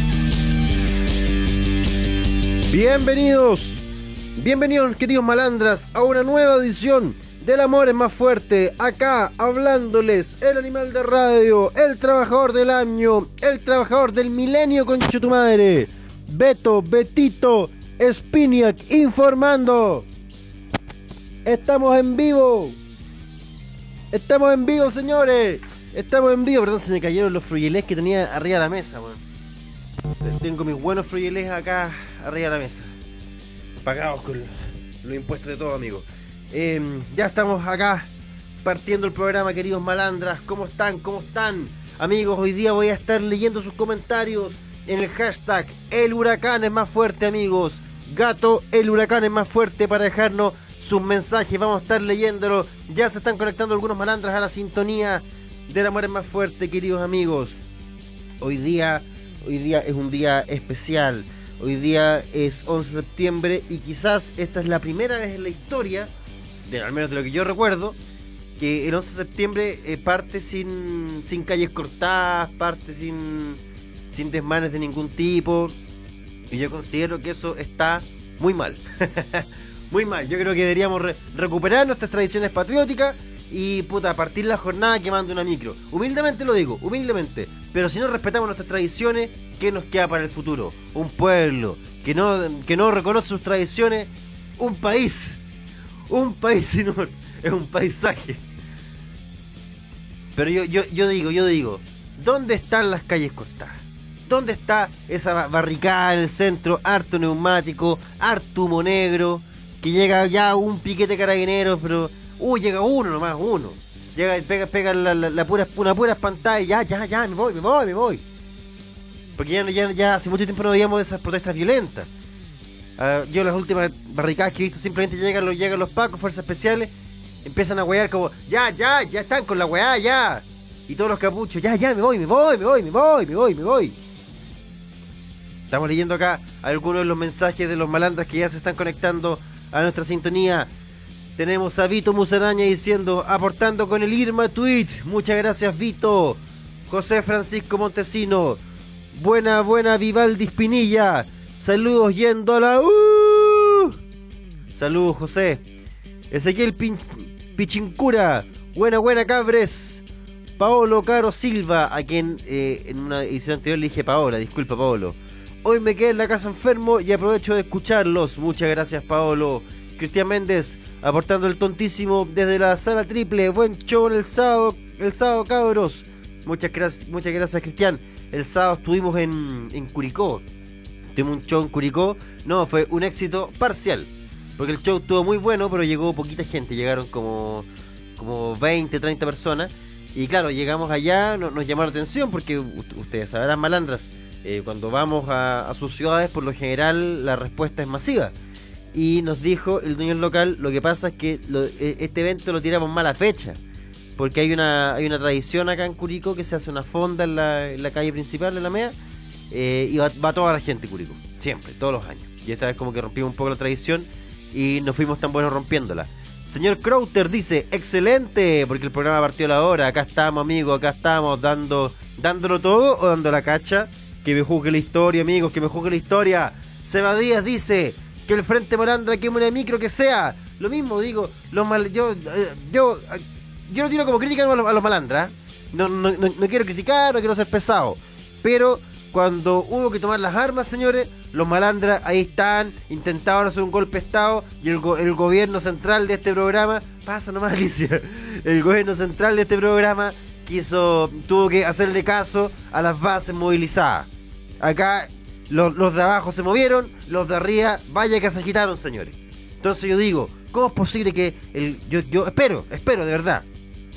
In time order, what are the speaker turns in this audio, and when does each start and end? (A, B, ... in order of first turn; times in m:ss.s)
0:02.7-0:20.1 A
0:21.4-0:22.8 A
0:24.1-0:29.2 A
0:30.2-0:32.9 A
0:33.8-0:38.1 A
0:38.6-0:57.6 A
0:58.4-1:06.1 A
1:06.6-1:08.0 A
1:08.6-1:13.6 A
1:14.1-1:15.7 A
1:16.5-1:35.4 A
1:36.1-1:38.4 A
1:40.3-1:58.2 A
1:59.4-2:02.1 A
2:03.0-2:06.9 A
2:07.4-2:13.9 A
2:15.7-2:20.7 A
2:21.4-2:28.6 A
2:29.1-2:33.9 A
2:34.7-2:35.6 A
2:36.3-2:40.0 A
2:40.6-3:00.4 A
3:01.1-3:18.3 A
3:18.9-3:23.6 A
3:24.2-3:29.0 A
3:29.5-4:14.1 A
4:14.6-4:23.4 A